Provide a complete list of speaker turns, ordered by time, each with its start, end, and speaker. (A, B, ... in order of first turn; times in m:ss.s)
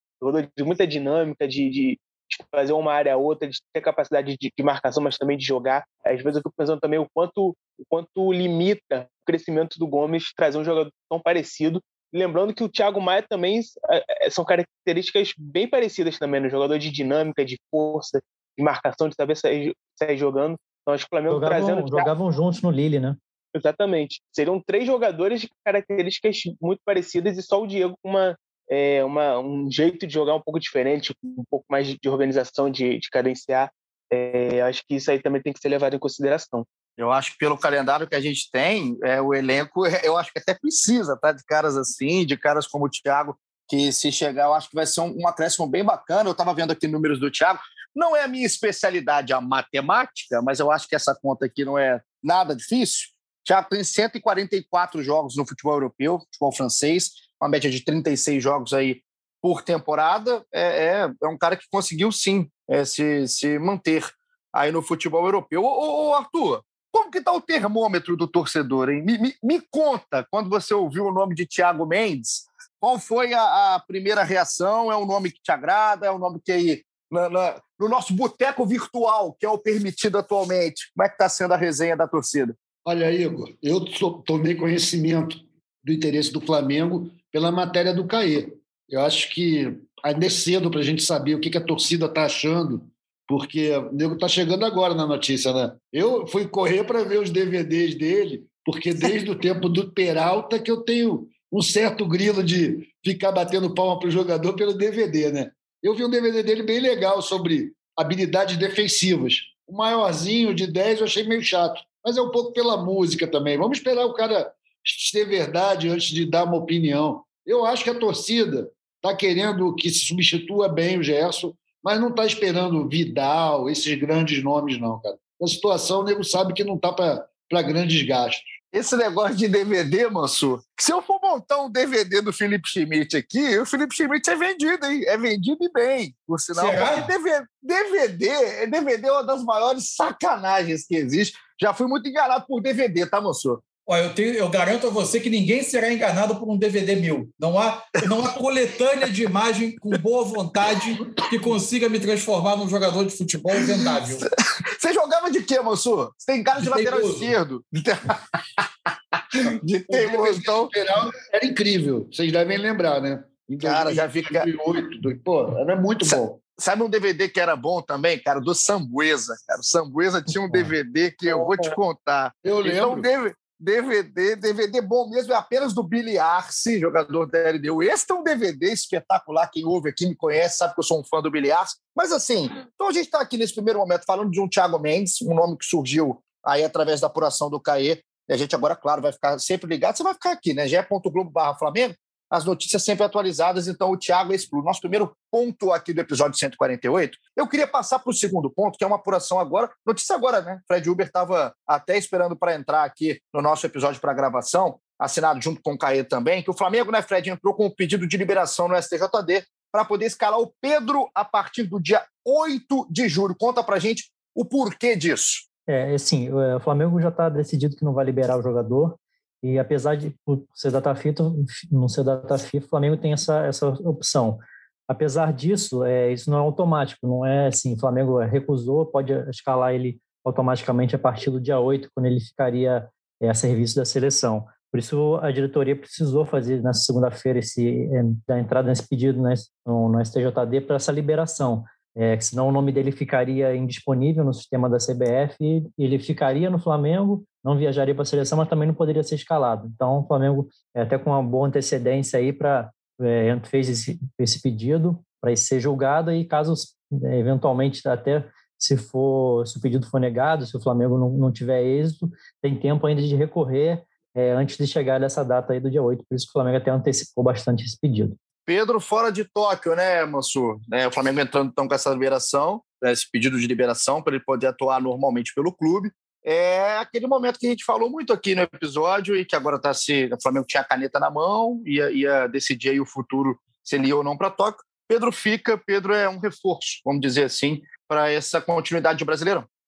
0:00.2-0:22.1 A
0:21.3-0:23.2 B
0:23.5-0:36.6 A
0:37.0-1:22.6 C
1:22.8-2:08.6 D
2:08.7-2:23.6 C
2:16.6-2:17.1 E
2:23.8-2:34.2 E
2:33.5-2:40.7 C
2:36.6-2:37.3 E
2:39.9-2:46.4 D
2:43.6-2:44.5 C
2:46.0-3:35.4 C
2:52.4-2:53.0 D
3:35.7-4:28.2 B
4:28.4-4:49.5 C